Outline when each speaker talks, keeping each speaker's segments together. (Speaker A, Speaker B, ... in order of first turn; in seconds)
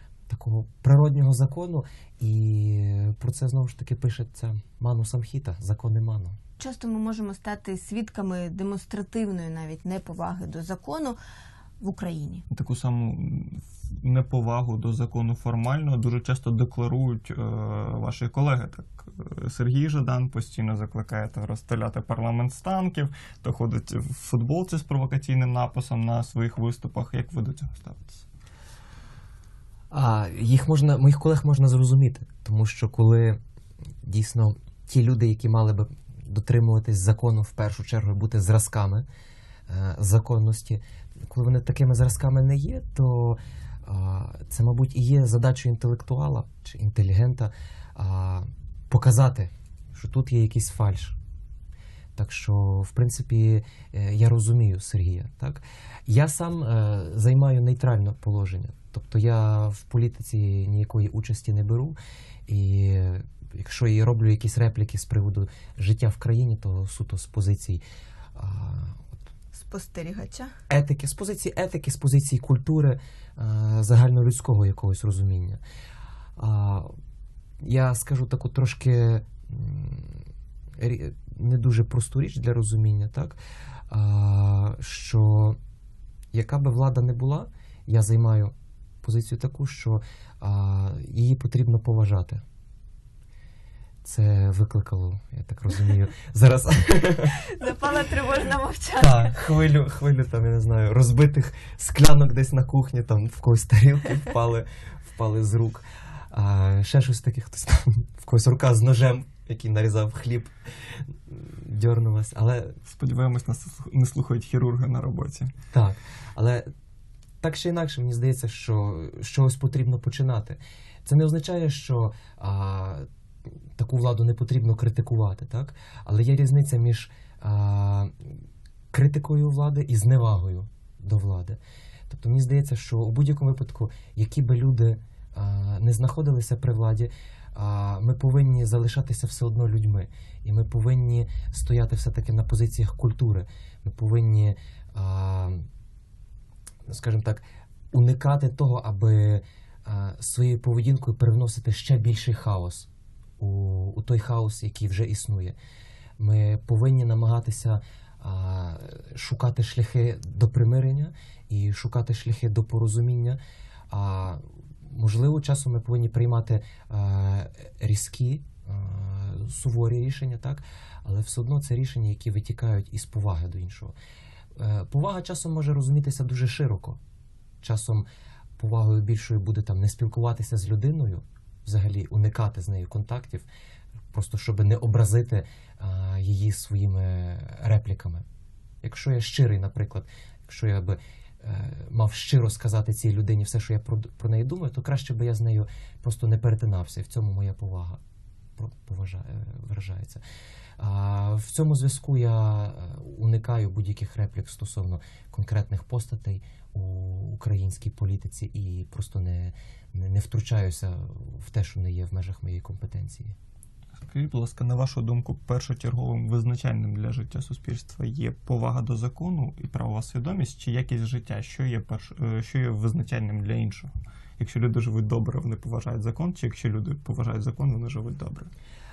Speaker A: 0.3-6.3, 29.9-33.4, 34.0-39.1, 39.7-51.2, 52.1-67.8, 68.3-69.1, 70.7-75.6, 76.4-76.9, 77.6-85.6, 86.3-92.4, 94.0-97.4, 99.0-112.8, 115.7-116.7, 117.4-123.1, 123.8-128.3, 128.9-145.7, 146.9-155.6, 156.2-173.9, 174.6-177.0, 177.6-183.5, 184.1-188.2, 188.8-198.0, 198.6-200.2, 200.8-213.3
Speaker B: 6.6-11.2, 11.8-12.4, 69.5-70.5, 97.3-99.3
Speaker C: 12.5-28.2, 112.8-115.5, 214.0-228.5